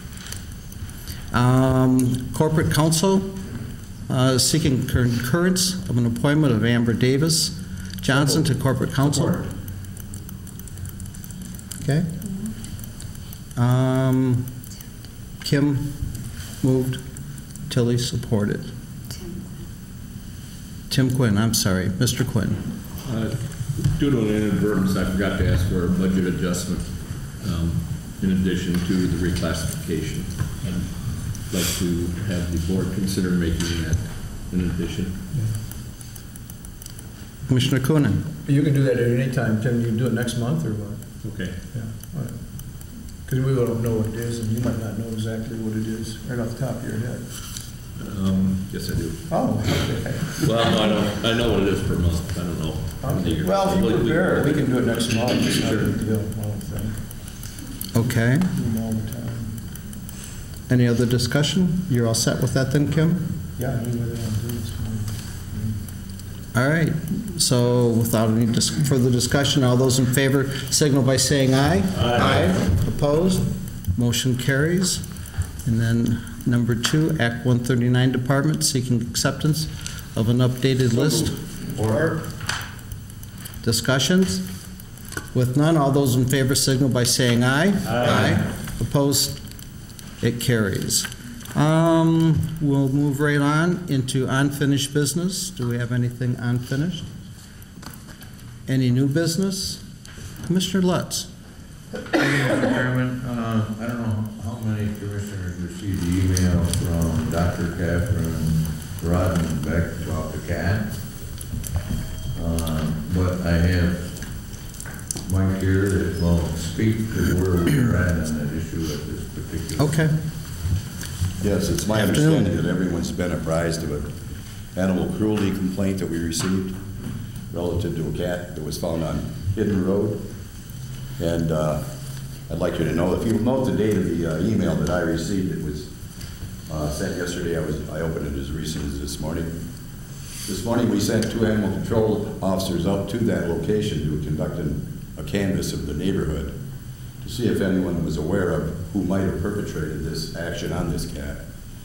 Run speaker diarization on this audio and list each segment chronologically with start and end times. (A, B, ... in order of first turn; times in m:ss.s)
0:01.3-0:03.4 A
0:04.1-0:09.5 A
0:11.8-0:12.1 A
0:13.6-0:14.6 A
0:15.4-0:16.1 A
0:16.6-0:17.0 A
0:17.7-0:18.7 A
0:20.9-0:22.6 A
0:23.0-0:35.2 B
0:37.5-0:38.2 A
0:38.5-0:41.0 C
0:41.2-0:41.6 B
0:41.7-0:42.4 C
0:43.3-0:47.3 C
0:48.0-0:49.2 B
0:49.3-0:50.8 C
0:50.4-0:54.6 B
0:53.0-0:57.0 C
0:55.4-0:55.8 B
0:57.9-0:58.5 A
0:58.5-0:59.6 C
1:00.7-1:03.2 A
1:03.6-1:05.7 C
1:06.5-1:15.0 A
1:15.6-1:21.3 A
1:21.8-1:22.2 D
1:23.6-1:24.4 A
1:25.3-1:29.4 A
1:30.2-1:37.1 A
1:38.7-1:39.8 A
1:40.4-1:41.3 A
1:42.1-1:50.9 D
1:52.4-1:54.1 D
1:55.2-2:00.0 D
1:59.8-2:00.2 A
2:01.4-2:04.1 E
2:01.9-2:02.6 A
2:04.8-2:06.8 E
2:07.5-2:10.2 E
2:11.2-2:11.8 E
2:12.5-2:15.9 E
2:16.7-2:19.5 E
2:20.5-2:26.5 E
2:27.2-2:31.4 E